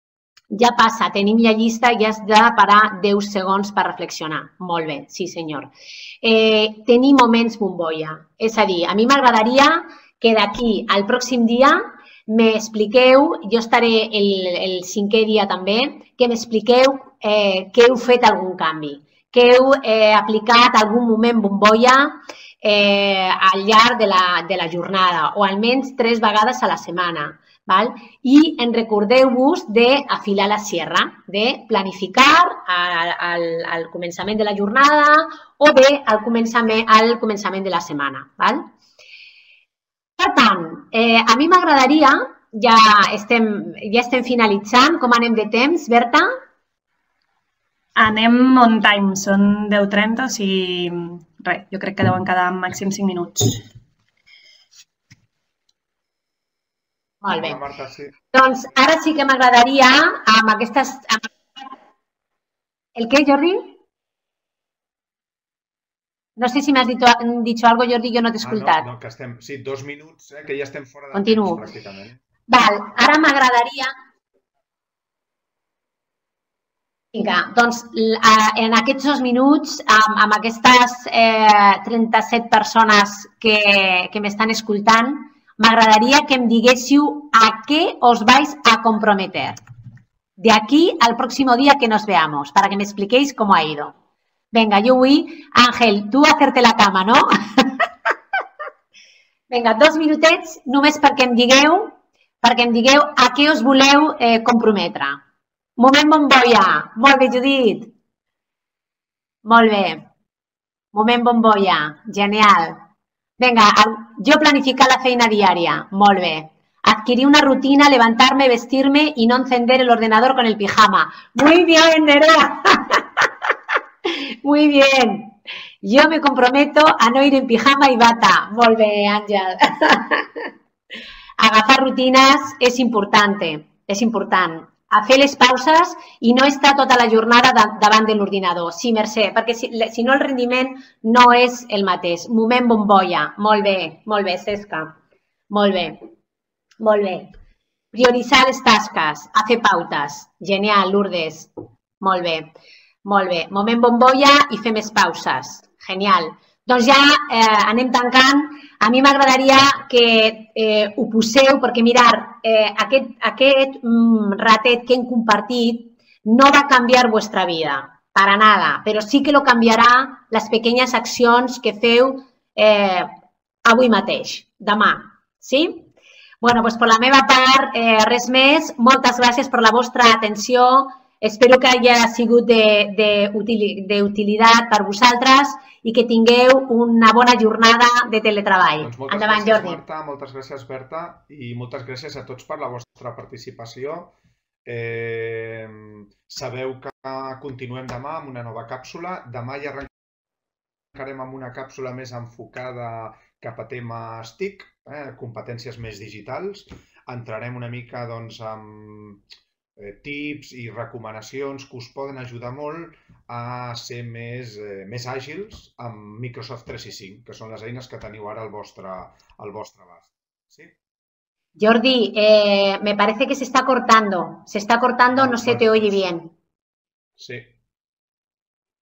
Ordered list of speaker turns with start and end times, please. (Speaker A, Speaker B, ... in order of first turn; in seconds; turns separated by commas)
Speaker A: 0.5-38.6, Speaker A: 40.2-46.3, Speaker B: 48.0-53.6, Speaker A: 57.2-57.6, Speaker C: 57.3-58.1, Speaker A: 58.3-61.3, Speaker A: 63.0-63.8, Speaker A: 66.4-68.8, Speaker C: 68.4-72.2, Speaker A: 71.1-71.6, Speaker A: 72.5-73.9, Speaker A: 77.1-89.6, Speaker A: 90.4-93.9, Speaker A: 94.5-97.9, Speaker A: 99.5-105.2, Speaker A: 105.8-107.9, Speaker A: 109.4-110.0, Speaker A: 110.9-112.8, Speaker A: 113.4-123.3, Speaker A: 124.0-130.5, Speaker A: 131.4-144.9, Speaker A: 145.5-146.0, Speaker A: 146.8-147.3, Speaker A: 147.9-152.5, Speaker A: 153.0-173.1, Speaker A: 173.7-175.8, Speaker A: 176.4-189.8, Speaker C: 188.8-194.1, Speaker C: 194.7-199.9, Speaker C: 200.9-209.2, Speaker C: 209.8-220.7, Speaker A: 221.6-226.3, Speaker C: 225.1-226.0, Speaker C: 227.2-227.5